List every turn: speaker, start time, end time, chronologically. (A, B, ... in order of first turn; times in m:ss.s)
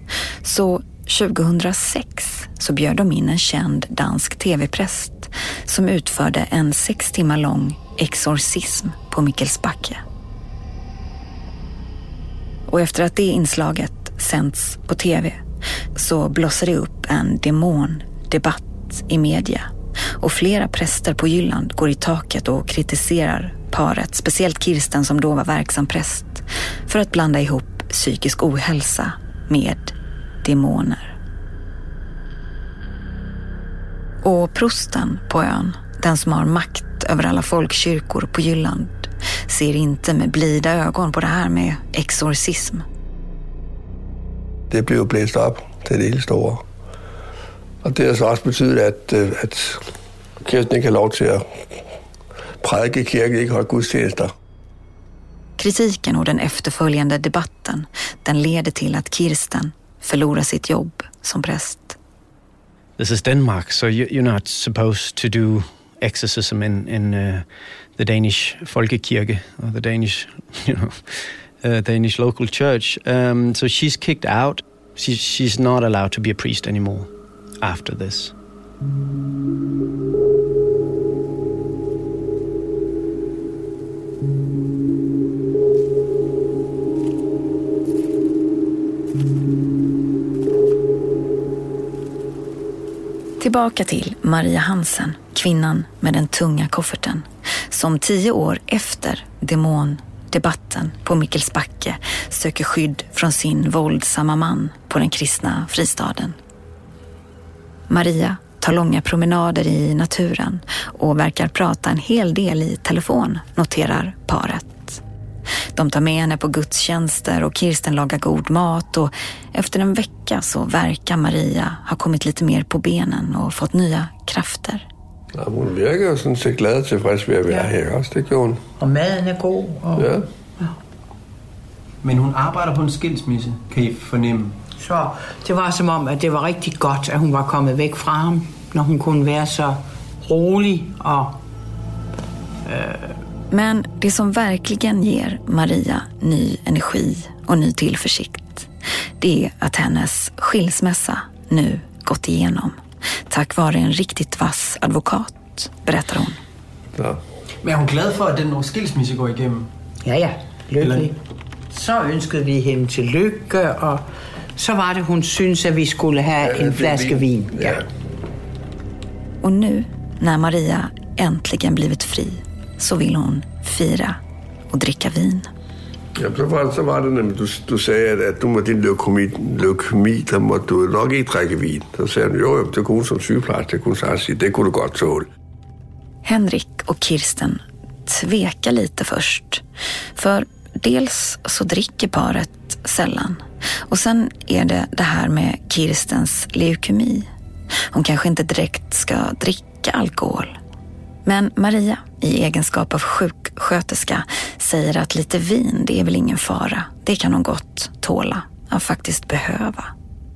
0:00.4-0:10.0 A
0:12.7-0:15.4 A
0:16.0-0:31.2 A
0:34.2-0:42.8 A
0:44.7-0:46.6 B
0:47.8-0:49.8 B
0:50.4-0:51.4 B
0:52.6-0:54.3 B
0:55.6-1:02.0 A
1:03.0-1:07.4 C
1:08.0-1:17.1 C
1:17.6-1:18.3 C
1:33.4-1:46.4 A
1:47.9-1:55.0 A
1:55.7-2:04.8 A
2:05.3-2:08.6 B
2:08.8-2:10.7 D
2:10.0-2:10.2 B
2:12.0-2:14.6 E
2:14.8-2:21.4 D
2:22.6-2:23.2 D
2:23.5-2:28.7 A
2:29.2-2:32.8 A
2:33.3-2:36.4 A
2:37.6-2:39.7 E
2:40.0-2:41.2 D
2:40.8-2:41.1 E
2:41.7-2:44.0 D
2:44.6-2:47.8 D
2:46.4-2:47.8 B
2:49.4-2:54.2 A
2:54.7-2:55.5 A
2:56.2-3:05.3 B
3:06.2-3:09.6 A
3:10.2-3:17.3 A
3:17.9-3:20.6 A
3:21.2-3:29.9 A